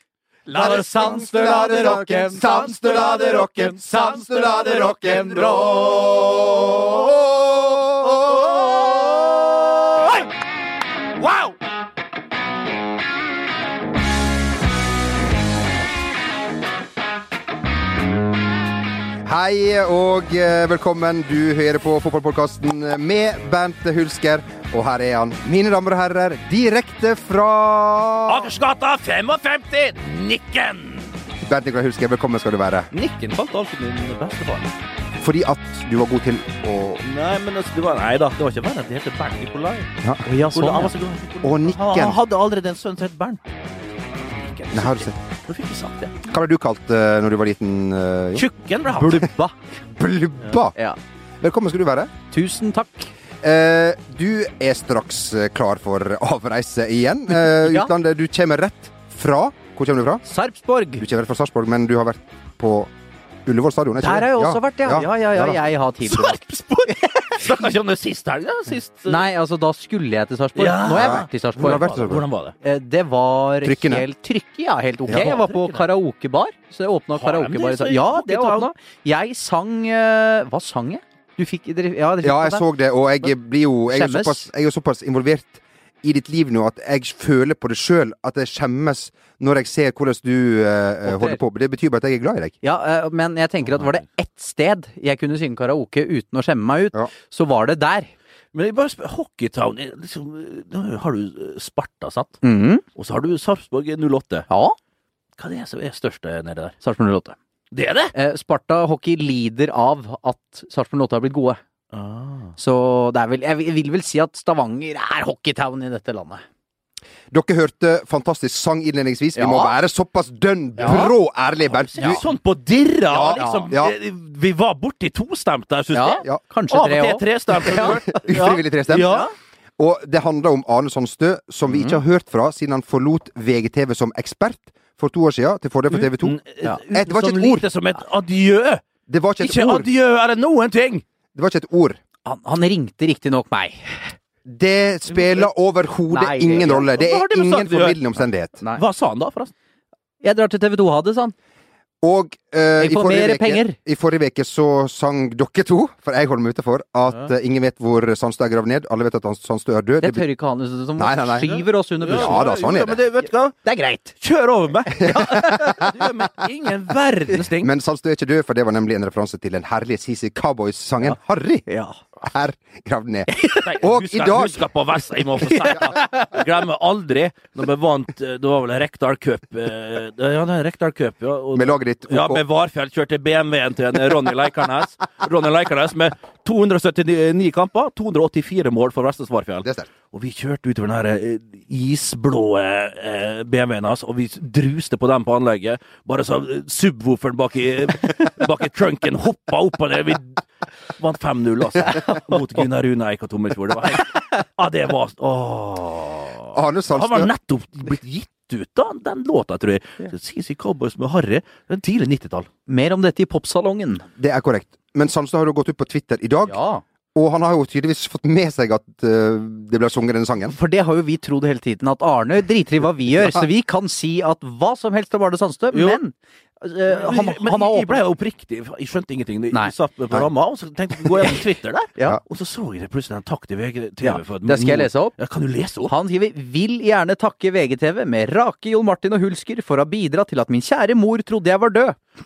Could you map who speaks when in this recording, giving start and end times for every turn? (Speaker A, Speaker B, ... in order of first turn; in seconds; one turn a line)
Speaker A: 0.5-5.8
Speaker B: 0.5-9.1
Speaker C: 0.9-2.3
Speaker A: 8.4-9.1
Speaker A: 9.9-10.3
Speaker A: 11.2-11.5
Speaker B: 19.2-28.5
Speaker A: 28.3-31.1
Speaker B: 31.4-32.9
Speaker A: 32.9-34.7
Speaker B: 35.2-37.0
Speaker A: 37.0-43.4
Speaker C: 40.2-40.9
Speaker B: 41.4-42.2
Speaker A: 44.3-46.2
Speaker B: 44.7-45.2
Speaker B: 46.2-48.5
Speaker A: 48.3-49.3
Speaker C: 49.0-49.5
Speaker B: 49.9-50.8
Speaker B: 51.4-52.1
Speaker C: 52.3-53.1
Speaker B: 53.4-60.2
Speaker C: 57.5-57.9
Speaker C: 60.2-61.0
Speaker B: 61.0-62.9
Speaker B: 63.5-65.5
Speaker C: 64.0-66.4
Speaker A: 66.1-69.2
Speaker C: 66.9-67.6
Speaker C: 69.1-71.9
Speaker A: 70.6-72.5
Speaker B: 70.9-72.2
Speaker C: 72.6-82.7
Speaker B: 73.6-74.0
Speaker A: 75.1-75.9
Speaker A: 77.1-78.7
Speaker B: 82.2-92.5
Speaker C: 83.9-84.5
Speaker C: 91.0-91.4
Speaker C: 92.6-98.1
Speaker A: 98.5-102.4
Speaker C: 102.4-102.8
Speaker A: 102.9-104.5
Speaker C: 104.5-104.8
Speaker A: 105.4-106.8
Speaker C: 106.8-107.3
Speaker A: 107.7-108.1
Speaker C: 108.1-111.6
Speaker A: 111.9-112.5
Speaker C: 112.6-116.4
Speaker B: 117.3-122.2
Speaker C: 119.3-119.7
Speaker C: 120.8-121.1
Speaker A: 121.7-129.3
Speaker B: 123.1-123.9
Speaker C: 123.4-123.7
Speaker C: 125.9-128.3
Speaker B: 127.7-129.2
Speaker C: 128.9-129.3
Speaker B: 129.8-136.4
Speaker C: 131.7-132.0
Speaker A: 135.9-138.8
Speaker B: 136.9-137.7
Speaker B: 139.1-139.9
Speaker A: 139.4-141.0
Speaker B: 141.3-142.0
Speaker C: 142.2-144.1
Speaker B: 144.4-148.6
Speaker A: 145.1-145.4
Speaker C: 146.1-146.9
Speaker A: 146.8-148.0
Speaker A: 148.8-149.5
Speaker C: 150.2-151.3
Speaker B: 152.0-160.3
Speaker C: 152.8-153.8
Speaker C: 160.0-162.4
Speaker B: 161.0-161.5
Speaker A: 161.4-163.5
Speaker B: 162.1-163.0
Speaker C: 163.6-164.1
Speaker A: 164.2-167.7
Speaker B: 165.0-165.9
Speaker B: 167.6-171.7
Speaker C: 171.7-172.0
Speaker B: 172.2-174.7
Speaker A: 173.6-200.4
Speaker C: 175.7-176.2
Speaker B: 181.5-182.4
Speaker B: 189.6-189.9
Speaker A: 201.0-212.5
Speaker B: 206.5-207.3
Speaker C: 212.7-214.0
Speaker B: 214.2-216.6
Speaker C: 216.5-216.8
Speaker B: 217.1-220.5
Speaker C: 220.5-228.0
Speaker A: 225.7-226.0
Speaker A: 226.9-235.9
Speaker C: 234.0-235.1
Speaker C: 235.9-242.0